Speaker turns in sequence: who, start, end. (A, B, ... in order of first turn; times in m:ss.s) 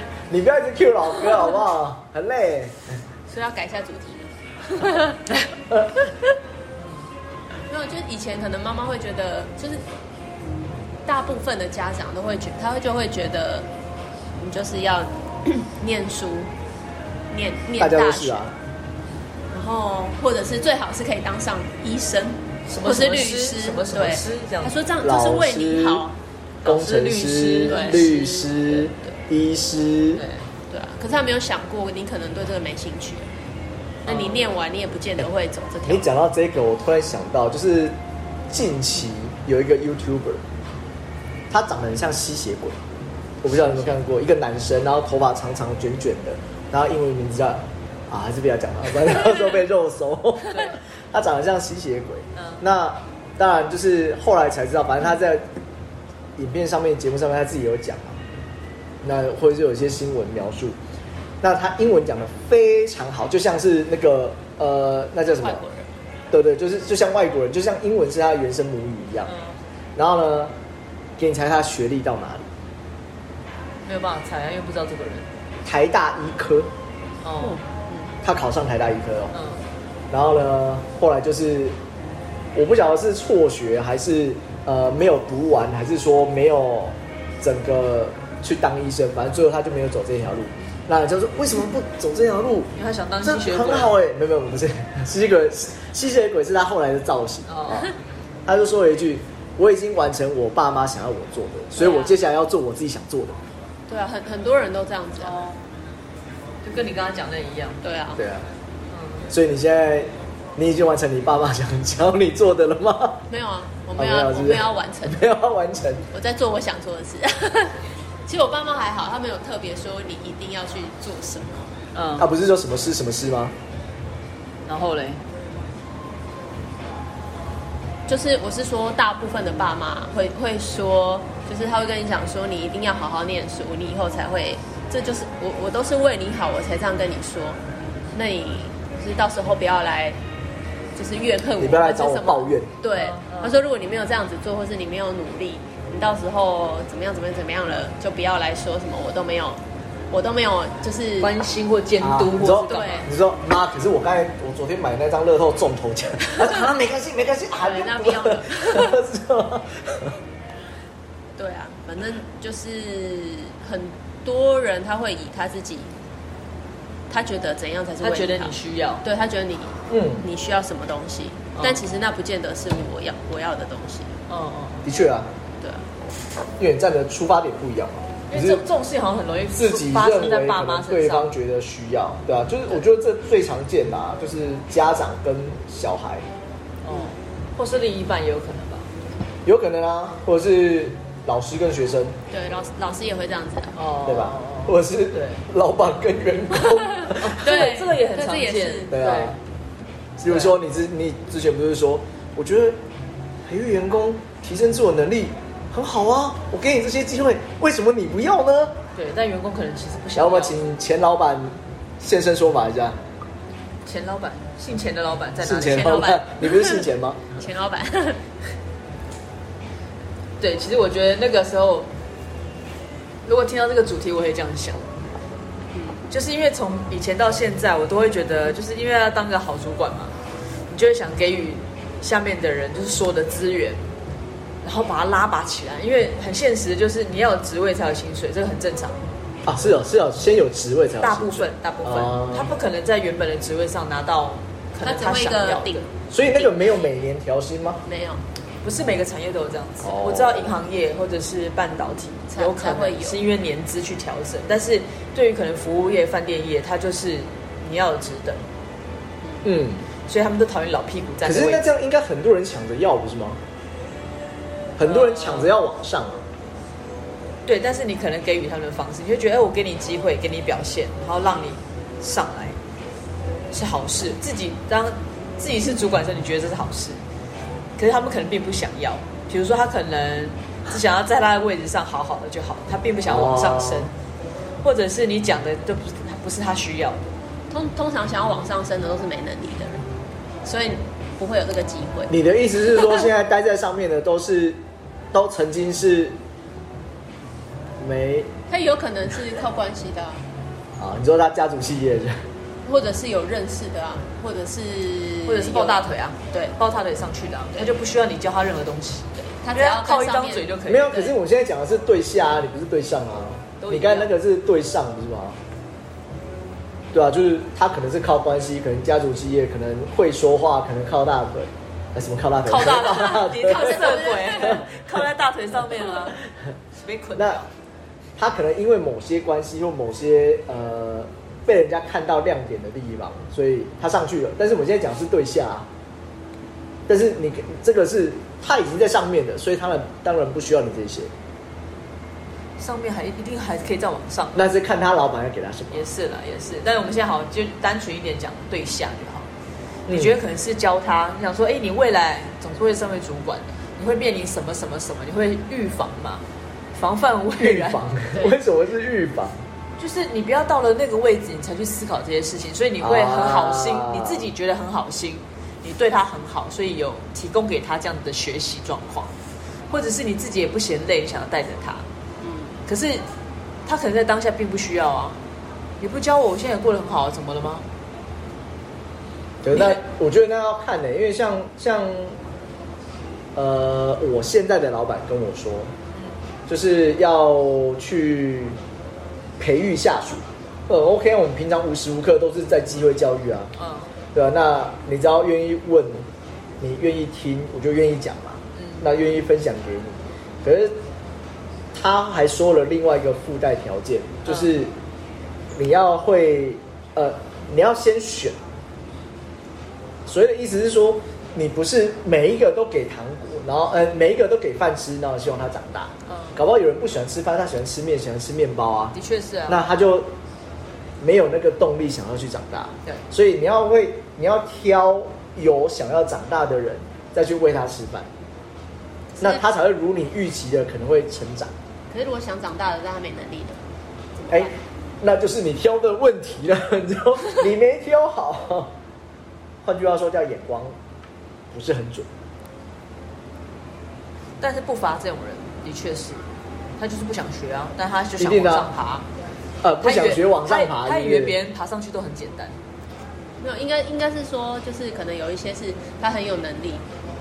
0:00.3-0:02.8 A
0:03.3-0:05.4 B
0:06.8-0:07.1 C
0:07.7-0:09.8 B
0:11.1-0:13.7 B
0:14.4-0:16.5 B
0:17.3-0:18.5 B
0:17.8-0:18.5 A
0:19.5-0:26.2 B
0:22.7-0:24.7 C
0:25.0-0:26.0 A
0:26.6-0:28.1 C
0:26.6-0:30.2 A
0:27.7-0:28.9 B
0:30.2-0:30.5 C
0:30.7-0:33.3 B
0:34.1-0:34.5 C
0:34.1-0:36.1 B
0:35.8-0:38.0 A
0:38.5-0:40.4 A
0:41.5-0:42.8 A
0:43.4-0:55.5 A
0:50.5-0:50.8 C
0:52.4-0:52.6 C
0:56.4-0:58.2 A
0:59.0-1:00.8 A
1:01.4-1:05.6 A
1:05.3-1:05.9 B
1:06.3-1:09.3 A
1:09.3-1:09.6 C
1:10.0-1:10.6 A
1:11.2-1:12.5 A
1:13.8-1:15.3 C
1:15.6-1:16.7 A
1:17.2-1:17.6 C
1:17.4-1:18.1 B
1:18.2-1:19.3 A
1:19.3-1:19.6 C
1:20.1-1:21.8 A
1:22.6-1:37.9 A
1:32.8-1:34.0 C
1:37.5-1:37.9 C
1:38.5-1:43.4 A
1:41.8-1:42.1 C
1:41.8-1:42.1 B
1:43.9-1:45.4 B
1:45.2-1:45.6 C
1:46.6-1:47.8 C
1:47.8-1:48.2 B
1:48.2-1:48.5 A
1:48.9-1:49.3 C
1:49.3-1:53.2 A
1:53.3-1:55.3 B
1:54.0-1:56.0 A
1:56.1-2:01.7 B
2:01.9-2:02.3 C
2:02.2-2:03.5 A
2:04.7-2:05.2 C
2:08.1-2:17.6 B
2:18.1-2:20.2 B
2:21.0-2:31.4 B
2:21.6-2:22.7 A
2:22.9-2:23.6 C
2:31.2-2:33.0 C
2:32.0-2:40.2 A
2:32.7-2:33.1 B
2:37.6-2:39.0 B
2:41.4-2:45.9 B
2:47.1-2:54.2 B
2:48.0-2:49.0 C
2:49.9-2:50.2 A
2:51.6-2:51.8 C
2:54.3-2:54.8 C
2:54.8-2:55.3 A
2:55.6-2:55.9 B
2:56.6-2:58.6 A
2:58.3-3:01.3 C
2:59.6-3:06.3 A
3:06.8-3:08.9 C
3:09.5-3:12.2 A
3:12.3-3:13.8 B
3:13.8-3:15.4 C
3:14.1-3:17.3 A
3:16.7-3:18.9 B
3:17.2-3:19.4 C
3:18.9-3:19.4 A
3:20.2-3:22.8 A
3:20.3-3:20.6 C
3:23.5-3:28.8 A
3:29.0-3:30.7 C
3:30.2-3:33.0 A
3:33.8-3:36.1 C
3:35.4-3:37.3 A
3:35.7-3:38.2 B
3:40.4-3:41.9 C
3:43.2-3:44.9 C
3:45.7-3:46.0 B
3:46.1-3:50.2 C
3:50.7-3:53.8 C
3:54.6-3:59.0 C
3:59.5-4:02.5 A
4:01.0-4:05.8 C
4:04.8-4:07.0 B
4:06.1-4:07.8 A
4:07.8-4:08.2 B
4:08.6-4:18.4 C
4:09.8-4:10.5 A
4:12.3-4:13.2 B
4:19.4-4:19.8 A
4:20.1-4:21.7 C
4:21.2-4:23.4 A
4:24.8-4:26.2 A
4:24.8-4:25.5 C
4:27.5-4:32.6 C
4:33.5-4:37.0 C
4:37.8-4:43.9 C
4:43.1-4:43.9 A
4:44.6-4:47.0 C
4:47.5-4:49.8 B
4:50.4-4:52.2 B
4:52.1-4:54.6 A
4:55.1-4:56.2 A
4:57.8-4:58.3 A
4:58.5-5:00.2 B
5:00.8-5:02.2 A
5:02.6-5:05.8 B
5:05.3-5:11.2 C
5:06.3-5:06.6 B
5:09.2-5:10.4 B
5:10.7-5:15.4 A
5:13.6-5:14.1 C
5:16.9-5:24.7 A
5:22.4-5:26.2 C
5:23.5-5:24.6 B
5:26.8-5:27.5 C
5:28.2-5:35.7 A
5:36.9-5:41.1 A
5:42.6-5:44.4 C
5:44.4-5:45.8 A
5:45.7-5:49.3 C
5:49.9-5:50.2 A
5:49.9-5:56.2 C
5:56.8-5:57.8 C
5:57.4-5:59.4 A
5:59.8-6:09.1 C
6:02.8-6:04.3 A
6:09.7-6:11.9 C
6:12.2-6:12.6 B
6:12.7-6:13.0 C
6:13.6-6:15.2 C
6:15.8-6:17.7 C
6:19.4-6:22.2 A
6:19.5-6:19.8 C
6:23.4-6:25.7 A
6:26.5-6:28.6 A
6:29.4-6:33.5 A
6:33.6-6:33.9 C
6:34.1-6:36.1 A
6:36.6-6:40.8 A
6:38.6-6:38.9 C
6:41.7-6:44.7 A
6:44.3-6:44.5 C
6:45.6-6:48.4 A
6:50.1-6:59.0 A
6:56.1-6:56.4 C
6:59.0-6:59.6 C
6:59.5-7:00.1 A
7:01.0-7:08.1 A
7:09.2-7:11.5 A
7:11.9-7:13.6 B
7:14.2-7:14.6 B
7:14.3-7:18.8 A
7:19.6-7:20.8 A
7:21.5-7:22.1 A
7:24.4-7:26.2 C
7:26.8-7:29.1 C
7:28.2-7:28.7 A
7:29.6-7:31.4 A
7:29.8-7:32.6 C
7:33.4-7:36.8 B